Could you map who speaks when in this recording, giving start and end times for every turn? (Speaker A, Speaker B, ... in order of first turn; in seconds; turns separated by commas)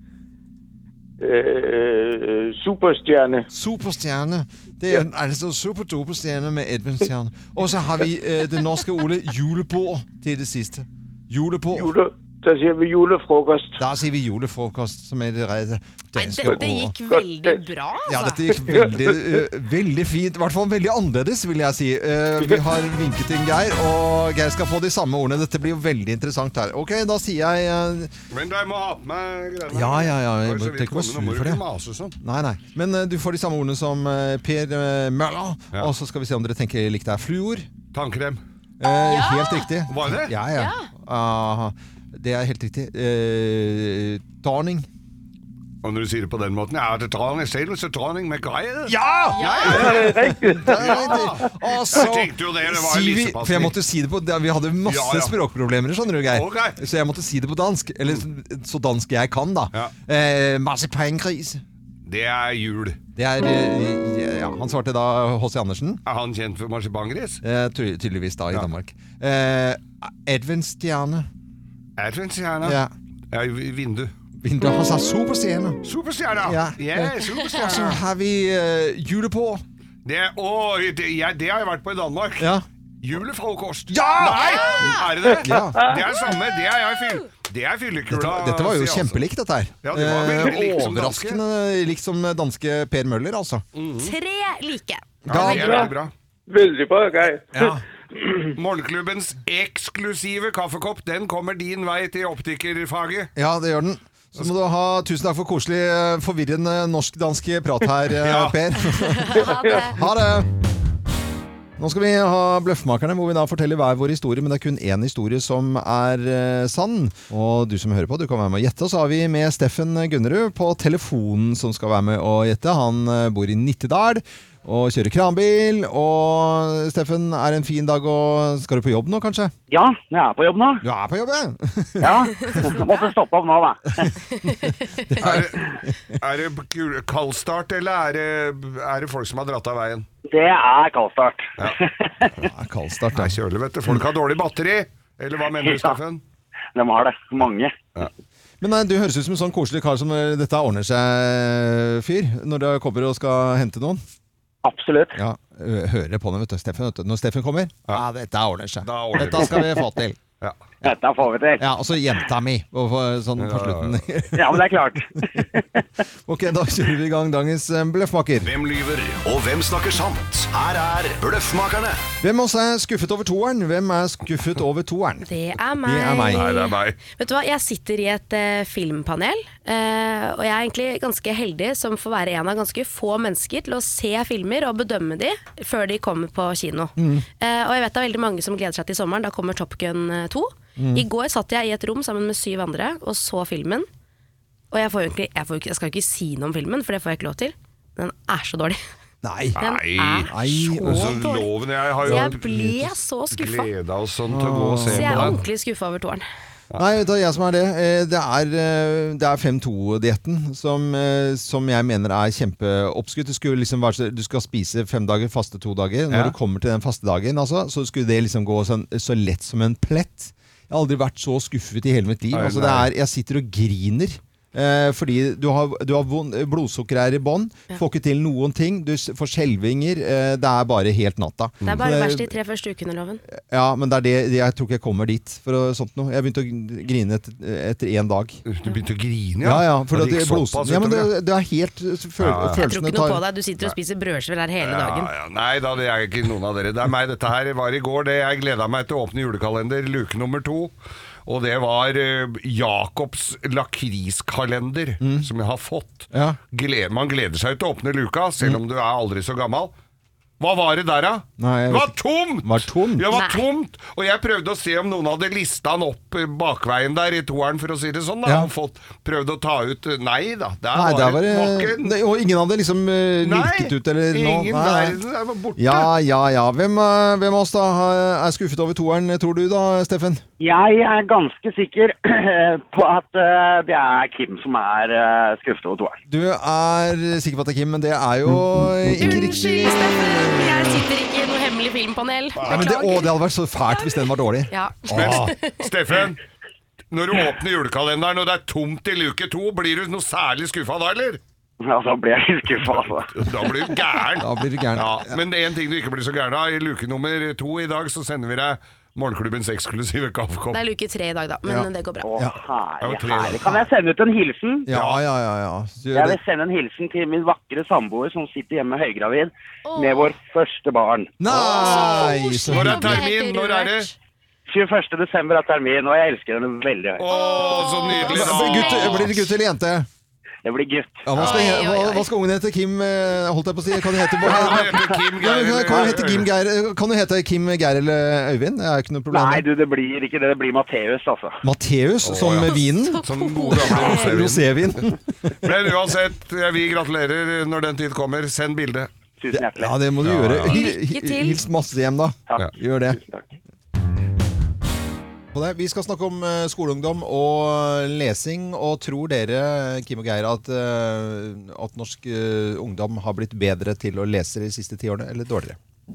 Speaker A: 1.2-3.5, Speaker B: 3.5-11.9, Speaker A: 11.7-13.8, Speaker B: 13.8-16.9, Speaker C: 16.1-18.4, Speaker A: 16.5-17.6, Speaker B: 18.1-28.1, Speaker A: 18.5-19.4, Speaker D: 28.3-32.2, Speaker B: 29.7-31.6, Speaker B: 32.2-37.7, Speaker D: 37.9-38.4, Speaker B: 38.8-44.9, Speaker C: 39.0-39.7, Speaker D: 39.9-40.3, Speaker C: 40.5-40.9, Speaker D: 45.8-48.9, Speaker B: 48.9-61.6, Speaker C: 49.3-49.9, Speaker D: 49.4-49.9, Speaker A: 49.7-51.2, Speaker D: 50.7-53.7, Speaker D: 54.9-55.3, Speaker D: 56.3-56.8, Speaker D: 62.0-63.0, Speaker B: 63.1-66.0, Speaker D: 66.0-67.4, Speaker B: 67.4-71.3, Speaker D: 72.0-72.8, Speaker B: 72.6-72.9, Speaker D: 73.3-74.1, Speaker B: 74.4-75.8, Speaker D: 75.8-78.0, Speaker B: 76.4-79.6, Speaker D: 80.0-82.5, Speaker D: 83.0-89.2, Speaker B: 83.9-84.7, Speaker C: 84.4-85.0, Speaker A: 85.3-86.0, Speaker B: 85.4-85.8, Speaker B: 88.1-93.6, Speaker D: 89.8-91.4, Speaker D: 93.7-94.1, Speaker C: 94.0-95.8, Speaker B: 95.2-95.8, Speaker D: 95.3-96.1, Speaker A: 95.5-95.9, Speaker A: 96.5-97.7, Speaker B: 97.5-97.8, Speaker D: 98.5-103.3, Speaker B: 103.3-110.5, Speaker D: 108.2-108.6, Speaker C: 109.2-109.9, Speaker B: 111.8-129.5, Speaker E: 129.7-130.8, Speaker B: 130.8-132.8, Speaker E: 132.0-134.1, Speaker B: 134.6-136.2, Speaker D: 135.2-135.7, Speaker D: 136.2-140.1, Speaker E: 140.3-142.3, Speaker B: 142.3-143.4, Speaker D: 143.1-146.2, Speaker E: 145.6-146.0, Speaker E: 146.7-147.8, Speaker B: 148.6-154.0, Speaker E: 154.6-155.2, Speaker B: 155.1-160.2, Speaker D: 158.8-159.6, Speaker E: 160.8-161.7, Speaker B: 161.6-165.5, Speaker D: 163.4-164.1, Speaker E: 164.3-165.8, Speaker B: 166.2-168.5, Speaker F: 168.4-172.1, Speaker B: 172.2-175.3, Speaker C: 175.2-193.9, Speaker B: 175.8-176.4, Speaker D: 176.3-177.0, Speaker B: 187.0-187.2, Speaker B: 190.8-191.0, Speaker C: 194.7-198.8, Speaker B: 199.2-199.6, Speaker D: 199.6-200.3, Speaker C: 199.6-201.5, Speaker B: 200.2-201.2, Speaker D: 200.8-205.4, Speaker C: 202.0-203.7, Speaker B: 202.0-202.3, Speaker B: 204.3-205.4, Speaker C: 204.9-206.2, Speaker B: 206.8-232.3, Speaker D: 216.1-216.3, Speaker D: 222.3-222.9, Speaker D: 231.6-231.9, Speaker C: 231.7-233.2, Speaker B: 233.3-238.4, Speaker D: 238.4-241.1, Speaker B: 239.4-243.2, Speaker D: 242.2-242.6, Speaker C: 242.6-245.1, Speaker D: 244.6-250.7, Speaker D: 251.2-259.7, Speaker B: 255.0-255.3, Speaker B: 256.1-256.4, Speaker D: 260.4-271.9, Speaker B: 261.4-263.1, Speaker C: 263.1-263.4, Speaker B: 268.2-268.5, Speaker B: 270.7-275.0, Speaker D: 273.2-275.9, Speaker B: 275.6-280.2, Speaker E: 280.4-286.0, Speaker B: 286.1-290.8, Speaker C: 289.0-293.1, Speaker D: 292.4-292.7, Speaker B: 292.5-295.3, Speaker C: 294.5-295.6, Speaker D: 294.9-296.2, Speaker D: 296.9-301.2, Speaker E: 301.6-303.1, Speaker D: 302.6-310.6, Speaker B: 304.2-305.2, Speaker C: 310.5-312.1, Speaker B: 311.4-312.4, Speaker E: 312.0-314.6, Speaker D: 312.8-313.6, Speaker B: 314.6-316.2, Speaker D: 314.7-315.0, Speaker E: 315.9-321.2, Speaker C: 319.7-320.1, Speaker B: 321.2-323.0, Speaker C: 321.3-323.9, Speaker D: 321.8-323.9, Speaker E: 324.5-327.1, Speaker D: 327.0-329.3, Speaker C: 327.1-329.1, Speaker B: 327.9-329.9, Speaker E: 330.4-331.1, Speaker B: 331.0-339.4, Speaker C: 331.1-332.1, Speaker D: 334.2-336.3, Speaker E: 339.1-341.4, Speaker B: 341.4-343.0, Speaker D: 342.0-344.5, Speaker C: 342.5-344.1, Speaker B: 343.7-345.4, Speaker D: 345.4-348.9, Speaker E: 349.2-349.8, Speaker B: 349.3-353.0, Speaker D: 350.0-350.6, Speaker C: 350.4-351.4, Speaker E: 352.3-353.2, Speaker B: 355.3-365.6